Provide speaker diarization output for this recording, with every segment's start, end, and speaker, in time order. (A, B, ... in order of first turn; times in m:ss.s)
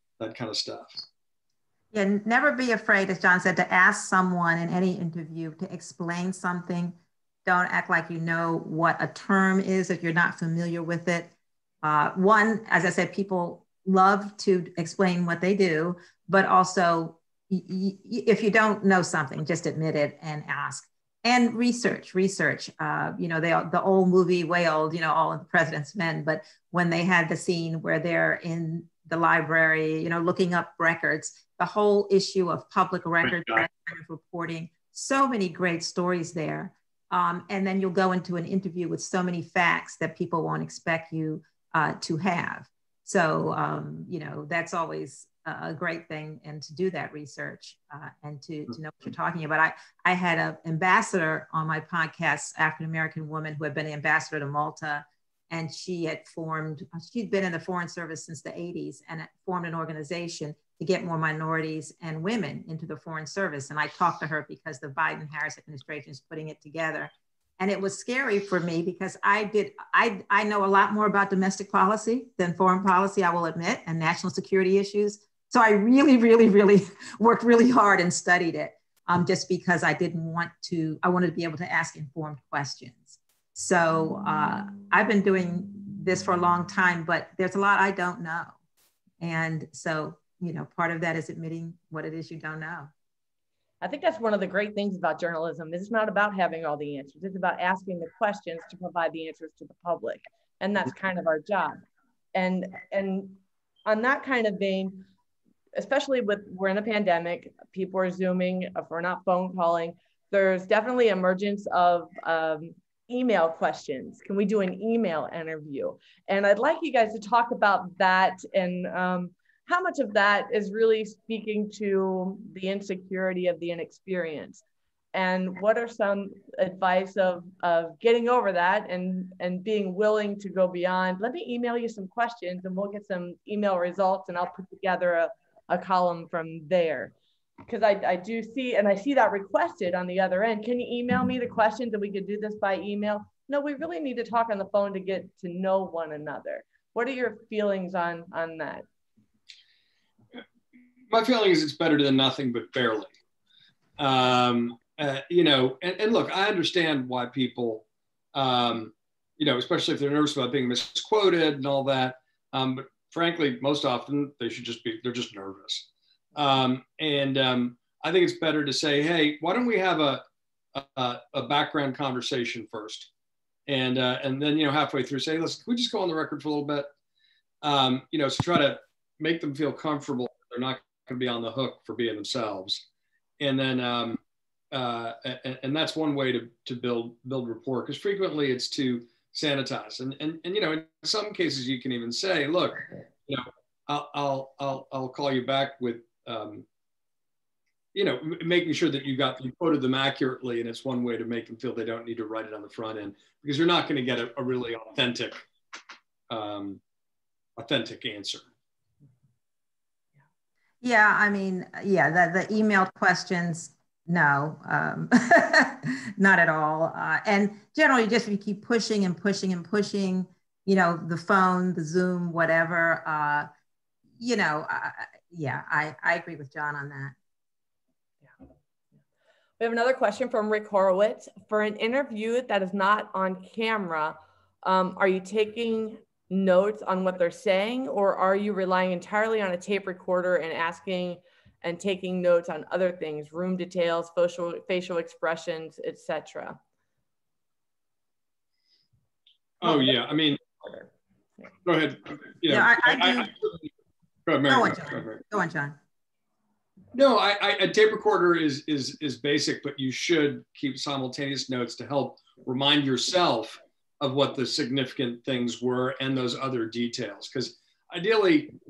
0:00.2-0:00.9 A
0:01.9-0:11.3 B
0:11.8-1:28.6 B
1:29.2-1:32.9 B
1:33.8-1:41.8 C
1:42.4-1:45.1 C
1:45.8-2:17.1 C
2:17.7-2:28.9 C
2:31.1-2:33.1 A
2:34.0-2:53.1 A
2:53.7-2:56.9 A
2:57.6-3:02.8 A
3:03.4-3:04.2 A
3:04.7-3:16.7 A
3:17.9-3:25.4 A
3:26.3-3:26.8 A
3:27.6-3:28.4 A
3:30.8-3:43.5 B
3:44.2-3:47.2 B
3:49.6-4:06.6 C
4:09.6-4:10.4 A
4:09.7-4:10.0 C
4:10.6-4:10.9 C
4:11.6-4:13.7 A
4:12.5-4:13.3 B
4:14.3-4:15.2 A
4:14.5-4:15.8 B
4:16.9-4:28.5 A